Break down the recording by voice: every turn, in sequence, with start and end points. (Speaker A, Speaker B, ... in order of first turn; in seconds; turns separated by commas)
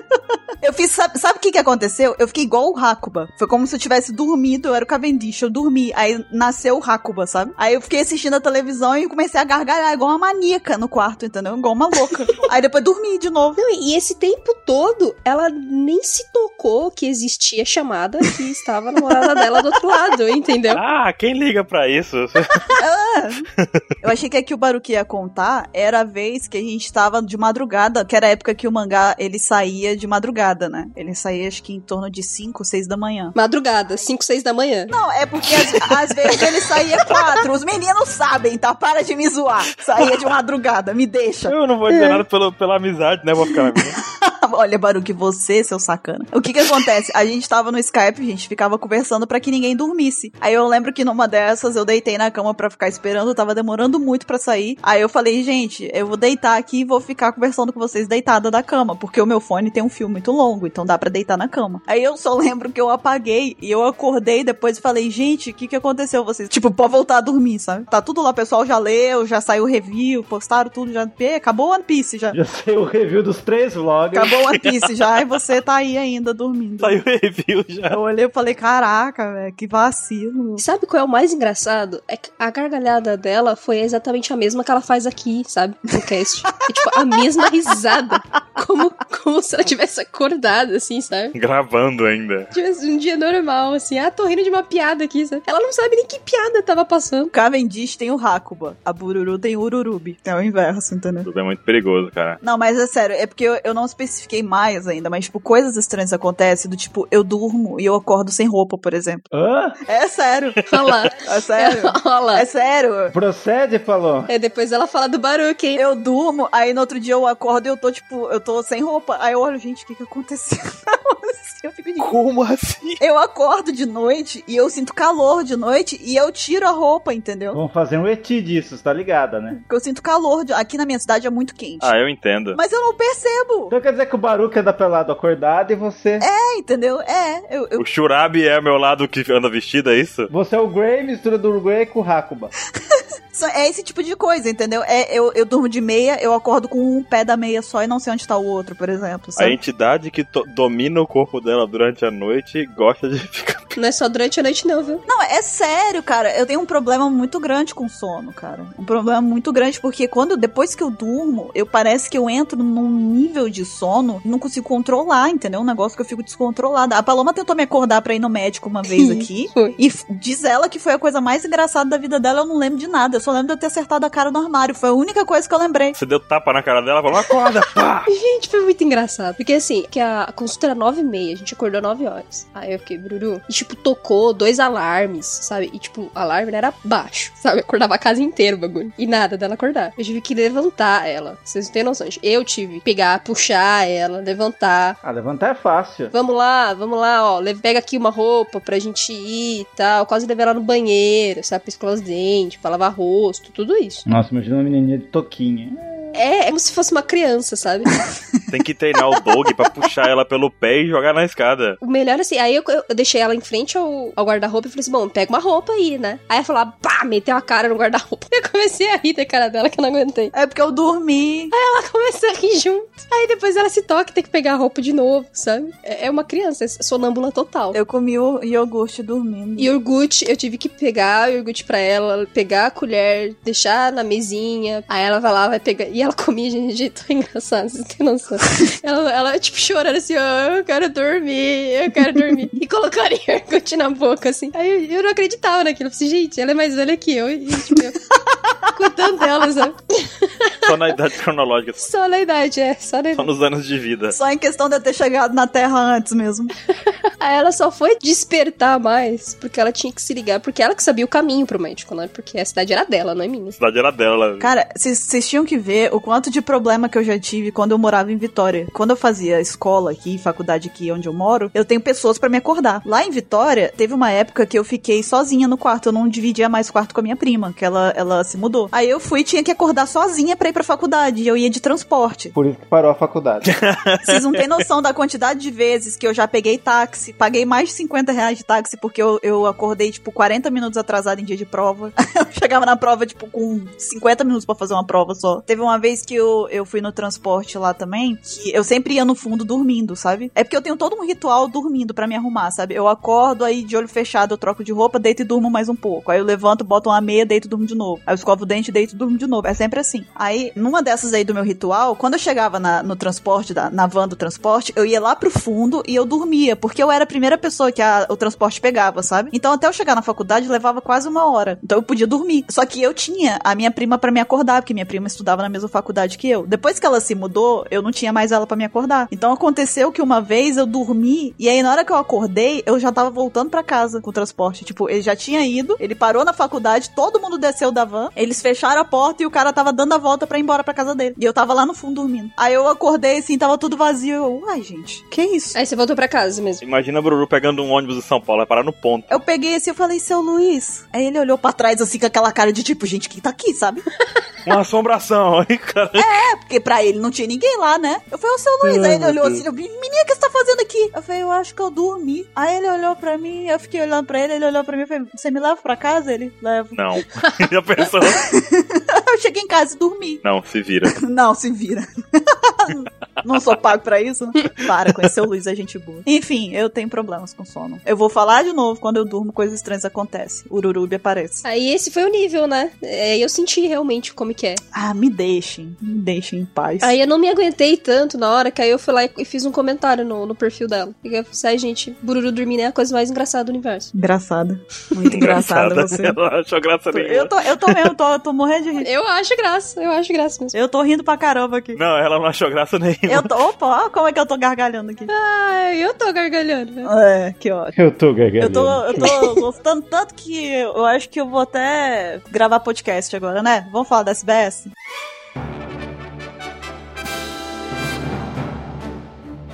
Speaker A: 0.2-13.6, Speaker B: 13.6-20.8, Speaker C: 20.7-22.6, Speaker A: 22.8-23.5, Speaker A: 24.0-33.4, Speaker B: 33.4-34.9, Speaker A: 34.9-41.5, Speaker C: 40.0-40.2, Speaker C: 41.5-44.0, Speaker B: 41.9-42.2, Speaker A: 44.2-72.3, Speaker D: 72.3-74.3, Speaker A: 74.2-77.0, Speaker C: 76.8-78.0, Speaker A: 77.9-80.6, Speaker B: 80.6-91.4, Speaker C: 91.3-92.5, Speaker B: 92.5-97.3, Speaker A: 97.3-101.3, Speaker C: 101.2-102.4, Speaker A: 102.4-109.3, Speaker D: 109.3-109.8, Speaker A: 109.9-110.6, Speaker B: 110.7-112.5, Speaker A: 111.2-113.1, Speaker D: 113.1-114.3, Speaker B: 114.3-115.8, Speaker A: 115.8-122.1, Speaker C: 122.0-123.0, Speaker A: 123.0-127.6, Speaker D: 127.5-129.6, Speaker A: 129.5-131.9, Speaker C: 131.8-132.6, Speaker A: 132.6-133.7, Speaker D: 133.7-136.2, Speaker A: 136.2-137.8, Speaker C: 137.8-140.3, Speaker D: 140.3-142.5, Speaker A: 143.0-149.6, Speaker C: 149.4-153.8, Speaker B: 153.8-155.0, Speaker A: 155.1-176.0, Speaker B: 168.9-169.8, Speaker C: 175.9-178.1, Speaker B: 178.1-195.0, Speaker D: 195.0-196.1, Speaker B: 196.1-204.1, Speaker D: 204.1-205.8, Speaker B: 206.1-207.9, Speaker C: 208.5-211.8, Speaker B: 211.8-220.3, Speaker A: 220.3-221.5, Speaker B: 221.5-227.8, Speaker A: 227.7-229.7, Speaker B: 229.6-248.0, Speaker A: 248.3-248.6, Speaker B: 248.8-250.7, Speaker C: 250.7-251.9, Speaker B: 251.8-253.3, Speaker C: 253.2-254.2, Speaker A: 254.1-256.5, Speaker B: 256.9-263.6, Speaker C: 263.6-264.5, Speaker A: 264.4-282.3, Speaker D: 282.3-283.5, Speaker C: 283.5-284.4, Speaker A: 284.1-345.6, Speaker B: 345.5-346.6, Speaker C: 346.6-349.1, Speaker A: 349.1-353.9, Speaker C: 354.5-356.2, Speaker A: 356.0-366.8, Speaker C: 366.8-368.3, Speaker A: 368.1-370.2, Speaker C: 370.2-371.0, Speaker A: 370.9-381.4, Speaker B: 381.4-384.6, Speaker A: 384.7-386.9, Speaker B: 386.8-393.9, Speaker A: 393.9-396.2, Speaker C: 395.1-397.9, Speaker A: 396.9-398.9, Speaker B: 398.8-400.6, Speaker A: 400.5-401.8, Speaker C: 401.8-403.3, Speaker A: 403.1-405.1, Speaker B: 405.1-406.9, Speaker A: 406.9-407.8, Speaker D: 407.8-409.1, Speaker A: 408.4-414.7, Speaker B: 409.0-409.3